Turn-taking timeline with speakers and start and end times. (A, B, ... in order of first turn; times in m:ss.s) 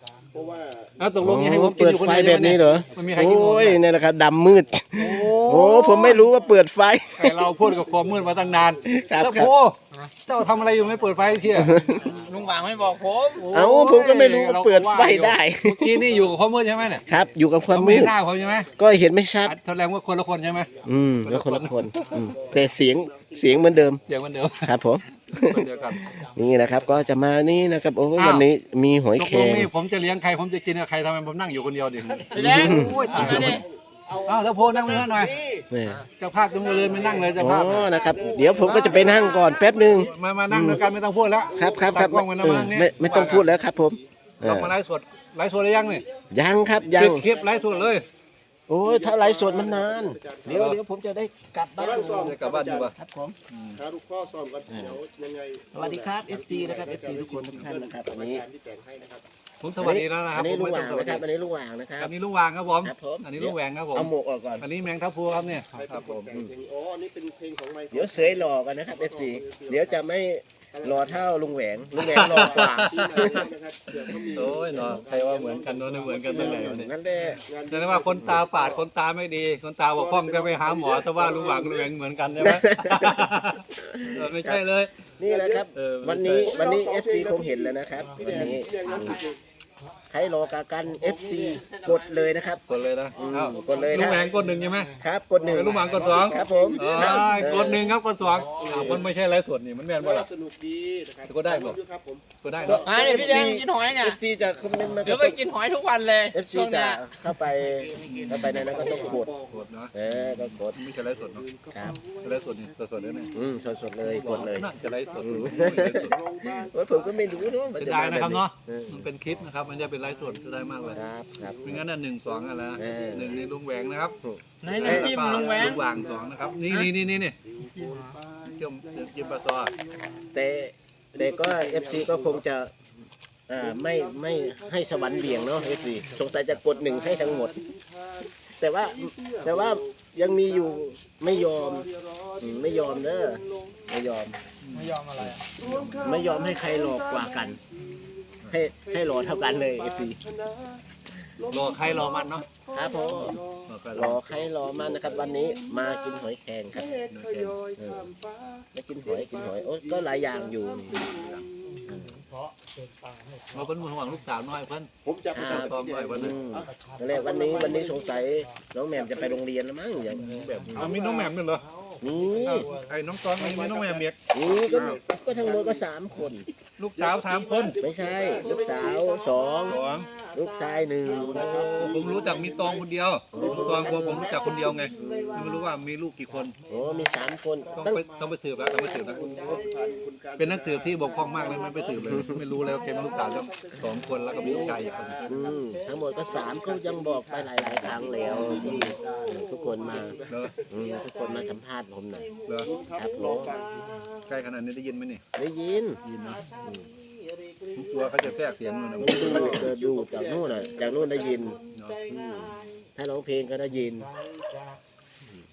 0:00.3-0:01.6 A
0:01.0-0:03.8 B
0:01.2-0:07.5 C
0:05.0-0:06.2 B
0:07.2-0:11.9 B
0:07.8-0:09.5 A
0:08.9-0:09.5 C
0:10.5-0:13.1 A
0:11.5-0:12.1 C
0:12.0-0:13.4 D
0:13.3-0:17.0 B
0:13.5-0:16.1 C
0:16.0-0:18.8 A
0:17.1-0:18.2 C
0:17.7-0:18.7 B
0:18.7-0:19.6 C
0:19.4-0:22.1 B
0:20.6-0:21.0 A
0:20.8-0:24.0 C
0:21.9-0:24.0 A
0:24.0-0:24.8 B
0:24.6-0:29.7 C
0:25.3-0:26.2 B
0:25.7-0:25.9 A
0:28.2-0:28.5 B
0:29.2-0:33.6 B
0:32.2-0:35.7 A
0:32.3-0:33.6 D
0:32.3-0:33.6 C
0:34.2-0:35.3 B
0:35.7-0:36.0 C
0:36.0-0:38.1 B
0:36.4-0:44.0 A
0:37.0-0:40.8 C
0:38.6-0:39.0 D
0:38.6-0:39.1 B
0:40.0-0:43.5 B
0:41.5-0:44.7 C
0:44.4-0:46.0 B
0:46.3-0:47.2 C
0:46.9-0:48.0 B
0:47.0-0:48.0 A
0:48.7-0:52.4 C
0:48.8-0:50.7 A
0:50.5-0:50.8 B
0:51.8-0:52.9 A
0:52.2-0:52.9 B
0:52.9-0:53.4 C
0:53.5-0:53.8 B
0:53.7-0:59.3 A
0:54.7-0:55.0 C
0:55.7-0:58.4 C
0:59.6-1:01.2 B
0:59.8-1:02.1 C
1:02.0-1:06.3 B
1:02.7-1:04.7 C
1:05.7-1:10.0 A
1:07.9-1:13.4 C
1:10.7-1:11.2 A
1:12.0-1:13.4 B
1:12.0-1:16.7 A
1:14.2-1:15.0 C
1:14.3-1:24.9 B
1:16.3-1:17.4 C
1:17.4-1:18.8 A
1:19.9-1:21.9 A
1:22.4-1:24.6 C
1:25.2-1:29.2 C
1:25.2-1:25.7 A
1:25.7-1:26.6 B
1:26.4-1:29.4 A
1:28.2-1:28.6 B
1:30.1-1:32.6 C
1:32.7-1:34.9 B
1:33.2-1:34.3 C
1:33.7-1:34.5 A
1:35.0-1:37.8 C
1:35.4-1:39.1 A
1:35.5-1:40.3 B
1:40.0-1:43.2 A
1:41.2-1:41.8 B
1:42.4-1:43.0 B
1:42.6-1:45.5 C
1:42.8-1:44.2 D
1:45.0-1:47.0 D
1:46.3-1:49.3 C
1:48.0-1:51.4 B
1:48.4-1:49.6 A
1:49.9-1:50.8 C
1:51.2-1:57.5 A
1:51.7-1:52.0 C
1:52.2-1:53.3 B
1:53.3-1:56.1 C
1:54.0-1:56.2 B
1:56.6-1:59.1 C
1:57.8-2:01.0 B
2:00.9-2:01.7 C
2:01.5-2:01.8 A
2:01.6-2:04.2 B
2:02.3-2:02.8 A
2:02.8-2:03.4 C
2:04.2-2:05.2 C
2:04.6-2:05.9 D
2:04.7-2:07.4 B
2:04.8-2:06.9 A
2:07.5-2:10.3 A
2:08.4-2:09.7 B
2:10.3-2:12.7 C
2:11.2-2:12.4 A
2:13.5-2:17.6 C
2:13.6-2:18.3 A
2:18.5-2:21.9 C
2:18.8-2:24.0 A
2:22.4-2:24.4 C
2:24.6-2:26.2 B
2:24.8-2:25.3 D
2:25.6-2:30.8 A
2:26.0-2:27.6 C
2:28.5-2:30.2 C
2:31.4-2:33.7 A
2:31.5-2:32.5 B
2:32.7-2:33.4 C
2:33.7-2:34.2 B
2:33.9-2:36.9 C
2:34.5-2:41.9 A
2:37.1-2:37.6 B
2:37.8-2:38.0 C
2:38.7-2:41.1 C
2:40.9-2:41.4 B
2:41.9-2:42.2 C
2:43.5-2:46.4 B
2:45.0-2:48.2 A
2:45.3-2:50.9 C
2:48.9-2:49.4 A
2:50.1-2:51.6 B
2:50.7-2:51.3 A
2:52.0-2:52.7 C
2:52.4-2:55.0 B
2:53.4-2:55.8 A
2:54.3-2:56.4 C
2:56.8-2:57.8 B
2:57.0-2:59.8 A
2:57.8-2:59.8 C
2:59.6-3:00.1 B
3:00.3-3:02.0 C
3:01.0-3:05.7 A
3:01.2-3:06.5 B
3:03.3-3:05.5 C
3:06.7-3:08.0 C
3:07.7-3:09.3 B
3:08.6-3:21.5 A
3:10.4-3:15.2 B
3:12.0-3:12.4 C
3:14.4-3:20.2 C
3:18.5-3:18.9 B
3:20.3-3:20.5 B
3:20.7-3:22.3 C
3:22.4-3:22.7 B
3:22.6-3:24.0 A
3:22.9-3:23.5 C
3:24.3-3:25.2 B
3:25.4-3:26.0 C
3:26.0-3:26.4 B
3:27.7-3:29.7 B
3:29.0-3:31.6 A
3:29.0-3:34.1 C
3:31.7-3:32.0 B